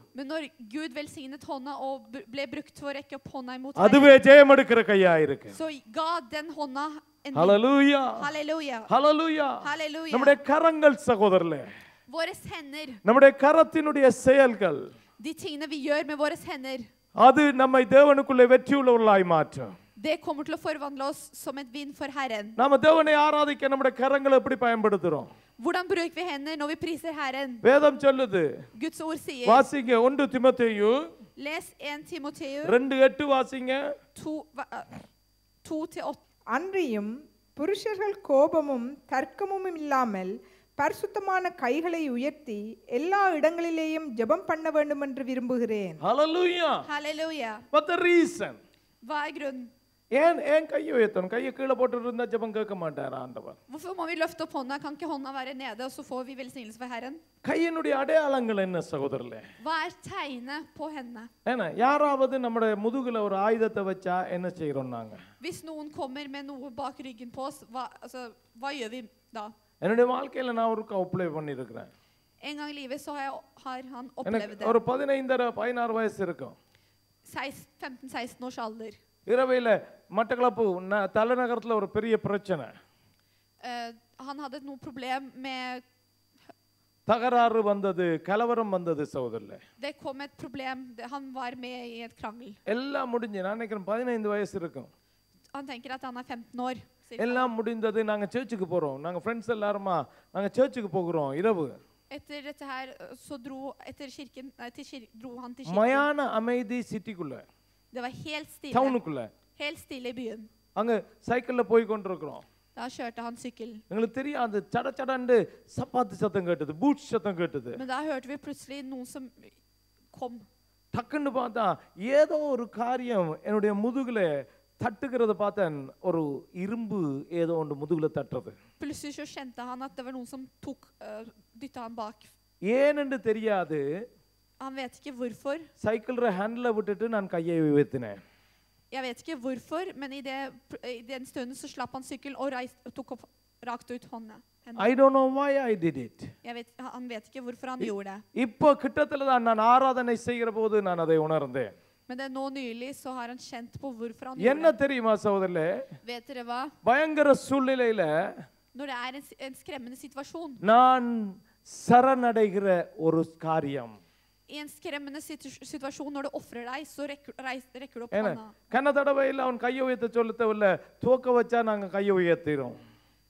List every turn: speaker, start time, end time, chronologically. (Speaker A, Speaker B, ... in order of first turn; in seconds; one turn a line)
Speaker A: 0.1-4.1
Speaker B: 3.8-5.5
Speaker A: 5.5-7.6
Speaker B: 7.3-8.2
Speaker A: 8.2-8.9
Speaker B: 8.9-11.7
Speaker A: 9.6-10.4
Speaker A: 12.1-13.0
Speaker B: 13.1-14.8
Speaker A: 15.2-16.9
Speaker B: 17.2-19.7
Speaker A: 20.0-22.6
Speaker B: 22.6-25.3
Speaker A: 25.6-27.6
Speaker B: 27.6-28.5
Speaker A: 28.8-29.7
Speaker B: 29.5-31.0
Speaker A: 31.4-32.8
Speaker B: 32.6-33.9
Speaker A: 34.2-35.0
Speaker A: 35.6-36.2
Speaker C: 36.5-46.0
Speaker B: 46.0-46.9
Speaker A: 46.9-47.6
Speaker B: 47.7-48.6
Speaker A: 49.0-49.7
Speaker B: 50.1-53.6
Speaker A: 53.7-57.2
Speaker B: 57.5-59.5
Speaker A: 59.6-61.3
Speaker B: 61.5-65.2
Speaker A: 65.4-69.5
Speaker B: 69.8-71.9
Speaker A: 72.4-74.8
Speaker B: 74.2-76.6
Speaker A: 77.3-79.0
Speaker B: 79.3-82.7
Speaker A: 83.6-85.8
Speaker B: 87.1-89.6
Speaker A: 89.8-92.6
Speaker B: 92.7-94.9
Speaker A: 95.5-97.5
Speaker B: 97.2-101.8
Speaker A: 102.1-106.1
Speaker B: 105.7-107.4
Speaker A: 107.9-109.0
Speaker B: 108.7-109.3
Speaker A: 109.6-110.5
Speaker B: 110.8-112.4
Speaker A: 112.8-113.8
Speaker B: 113.9-117.8
Speaker A: 117.8-119.5
Speaker A: 120.1-120.5
Speaker B: 120.9-128.6
Speaker A: 128.8-132.3
Speaker B: 132.7-133.8
Speaker A: 134.6-135.7
Speaker B: 135.8-138.2
Speaker A: 138.9-144.9
Speaker B: 144.8-146.3
Speaker A: 146.4-148.2
Speaker B: 147.8-151.7
Speaker A: 152.1-154.8
Speaker B: 154.4-155.9
Speaker A: 156.0-156.7
Speaker B: 156.8-158.4
Speaker A: 158.7-160.6
Speaker B: 160.6-164.0
Speaker A: 164.5-168.6
Speaker B: 168.1-172.8